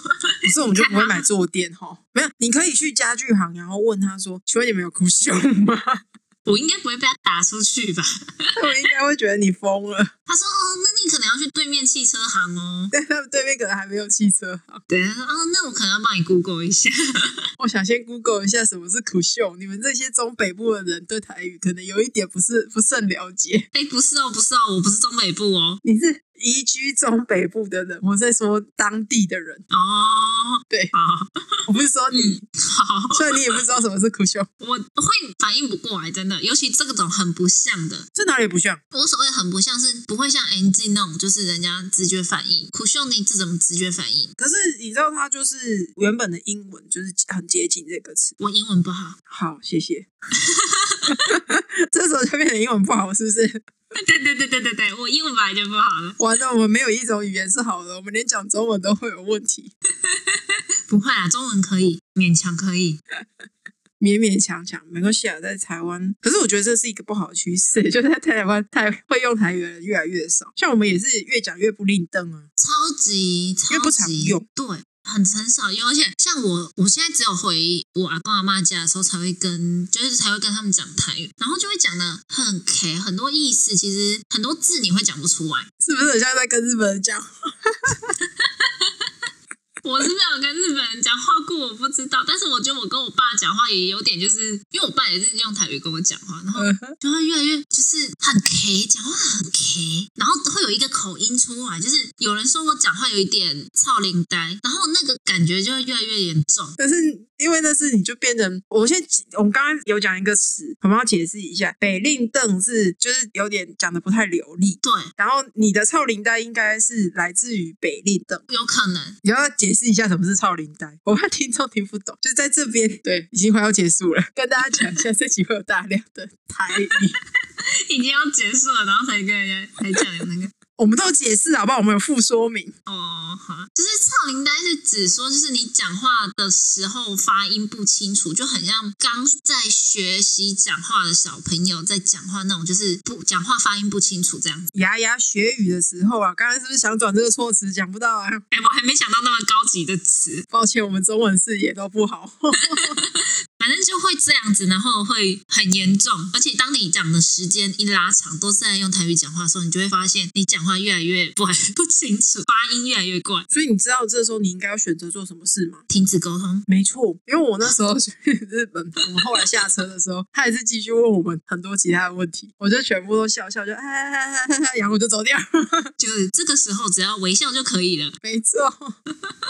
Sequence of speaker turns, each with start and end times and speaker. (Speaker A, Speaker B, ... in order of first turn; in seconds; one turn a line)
Speaker A: 0.4-1.2
Speaker B: 0.5-6.0
Speaker A: 6.5-8.8
Speaker B: 8.6-10.1
Speaker A: 10.3-12.9
Speaker B: 12.9-14.8
Speaker A: 14.9-17.5
Speaker B: 17.6-23.7
Speaker A: 23.7-25.8
Speaker B: 25.8-29.6
Speaker A: 29.7-33.6
Speaker B: 31.7-32.4
Speaker B: 33.1-34.5
Speaker A: 34.6-38.1
Speaker B: 38.1-38.8
Speaker A: 38.9-44.3
Speaker B: 44.4-48.4
Speaker A: 48.4-49.2
Speaker B: 49.3-50.1
Speaker A: 50.4-51.2
Speaker B: 51.1-53.6
Speaker A: 53.9-56.2
Speaker B: 56.2-59.7
Speaker A: 60.1-63.0
Speaker B: 64.0-72.5
Speaker A: 72.6-85.7
Speaker B: 73.7-74.5
Speaker B: 85.8-88.1
Speaker A: 88.2-88.9
Speaker A: 89.8-106.8
Speaker B: 96.6-97.0
Speaker B: 106.8-118.4
Speaker A: 114.8-115.1
Speaker A: 118.5-119.2
Speaker B: 119.2-127.2
Speaker A: 127.6-130.5
Speaker B: 130.8-132.7
Speaker A: 132.9-144.7
Speaker B: 144.7-148.4
Speaker A: 148.5-150.5
Speaker B: 150.5-152.9
Speaker A: 152.8-163.5
Speaker B: 163.5-165.8
Speaker A: 165.9-166.7
Speaker B: 166.7-175.9
Speaker A: 176.0-178.2
Speaker B: 178.2-179.0